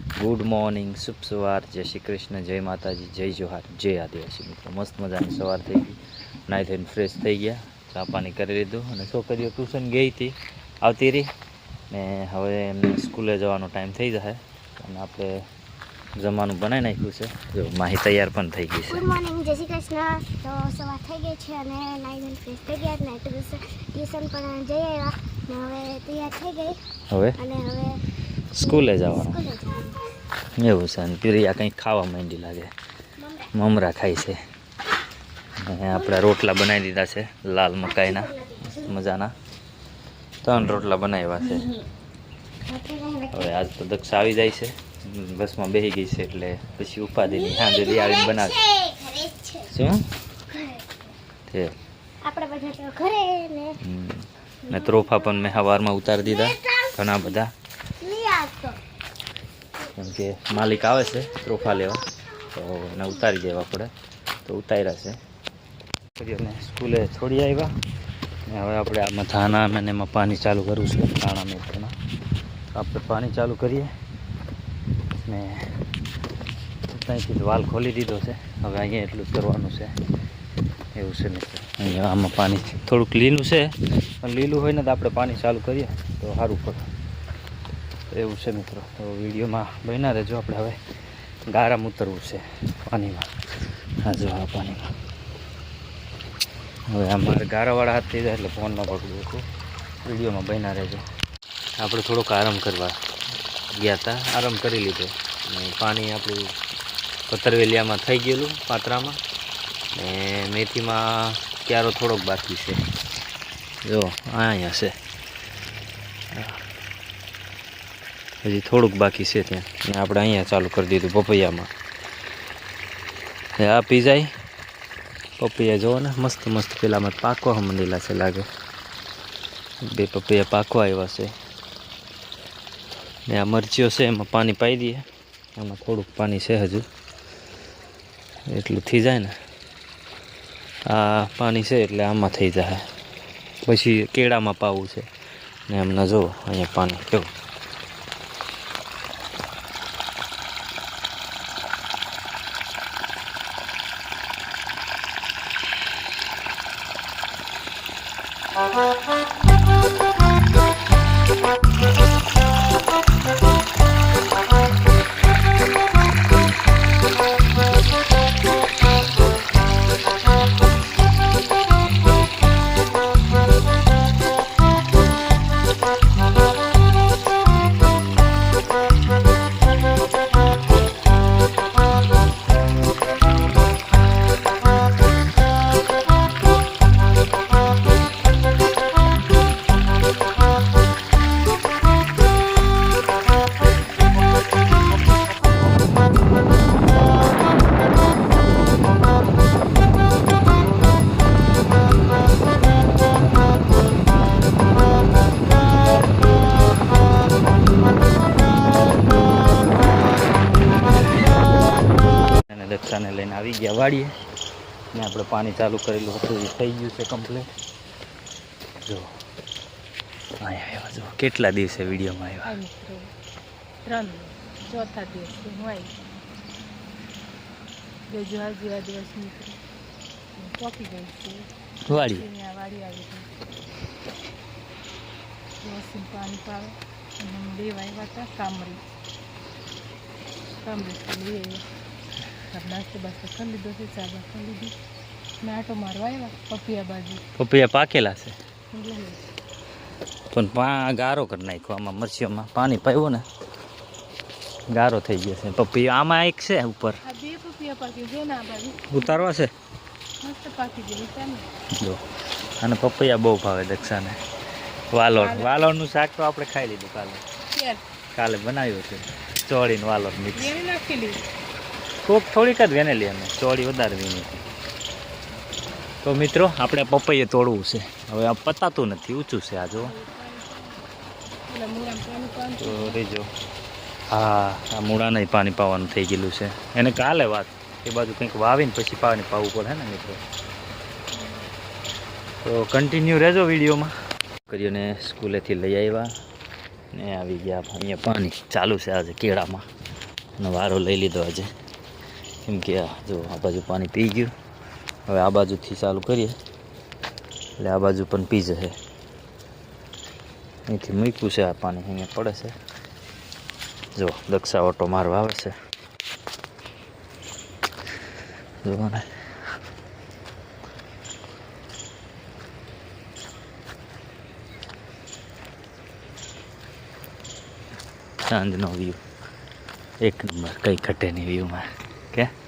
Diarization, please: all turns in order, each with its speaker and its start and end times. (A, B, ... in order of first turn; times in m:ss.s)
0:00.2-0:11.3 A
0:11.9-0:15.4 A
0:16.2-0:19.1 A
0:18.9-0:26.8 B
0:27.1-0:27.4 A
0:27.4-0:28.0 B
0:28.5-0:29.5 A
0:28.7-0:30.0 B
0:30.6-0:32.7 A
0:33.5-0:34.4 A
0:35.6-0:39.3 A
0:38.0-0:38.8 B
0:40.4-0:41.8 A
0:42.6-0:43.5 B
0:43.3-0:48.7 A
0:47.5-0:49.7 B
0:49.7-0:50.1 A
0:50.5-0:51.0 B
0:52.2-0:53.8 B
0:53.8-0:57.5 A
0:56.4-0:56.8 B
0:58.0-0:58.8 B
0:59.9-1:03.9 A
1:04.4-1:05.2 A
1:06.2-1:07.7 A
1:08.5-1:11.9 A
1:12.8-1:13.9 A
1:15.2-1:15.7 A
1:16.9-1:19.9 A
1:20.9-1:26.9 A
1:28.1-1:30.8 A
1:31.5-1:33.3 A
1:34.0-1:34.9 A
1:36.9-1:39.4 A
1:40.0-1:41.0 A
1:41.8-1:43.0 A
1:43.7-1:46.5 A
1:47.3-1:49.2 A
1:50.0-1:52.8 A
1:53.8-1:55.0 A
1:56.3-1:56.6 A
1:58.4-2:01.7 A
2:03.6-2:04.3 A
2:05.4-2:08.5 A
2:09.8-2:11.3 A
2:13.3-2:15.0 A
2:15.6-2:16.9 A
2:18.5-2:19.4 A
2:20.9-2:22.9 A
2:23.6-2:25.1 A
2:25.7-2:27.3 A
3:32.5-3:34.2 A
3:34.9-3:37.5 A
3:38.8-3:39.1 A
3:40.4-3:42.6 A
3:42.4-3:43.1 C
3:43.8-3:45.9 C
3:48.1-3:49.6 C
3:50.4-3:53.3 C
3:51.9-3:52.3 A
3:55.6-3:58.8 C
4:00.6-4:01.6 C
4:02.5-4:04.8 C
4:05.4-4:07.2 C
4:07.4-4:08.4 A
4:08.7-4:09.3 C
4:10.3-4:13.2 A
4:14.7-4:17.0 A
4:17.0-4:19.2 C
4:18.9-4:19.5 A
4:20.2-4:21.5 C
4:22.6-4:24.2 A
4:24.9-4:27.2 A
4:25.1-4:25.7 C
4:27.5-4:27.8 C
4:28.1-4:30.5 A
4:30.4-4:31.2 C
4:32.0-4:34.5 A
4:36.0-4:39.9 A
4:39.8-4:40.8 C
4:41.5-4:43.0 C
4:42.6-4:43.3 A
4:44.1-4:50.2 A
4:51.1-4:51.5 C
4:52.4-4:53.9 A
4:54.5-4:56.1 A
4:56.9-4:59.6 A
5:00.4-5:01.5 A
5:02.4-5:04.3 A
5:05.1-5:06.4 A
5:07.6-5:08.8 A
5:10.7-5:12.5 A
5:14.0-5:15.5 A
5:18.6-5:19.0 A
5:28.3-5:29.0 A
5:30.0-5:32.3 A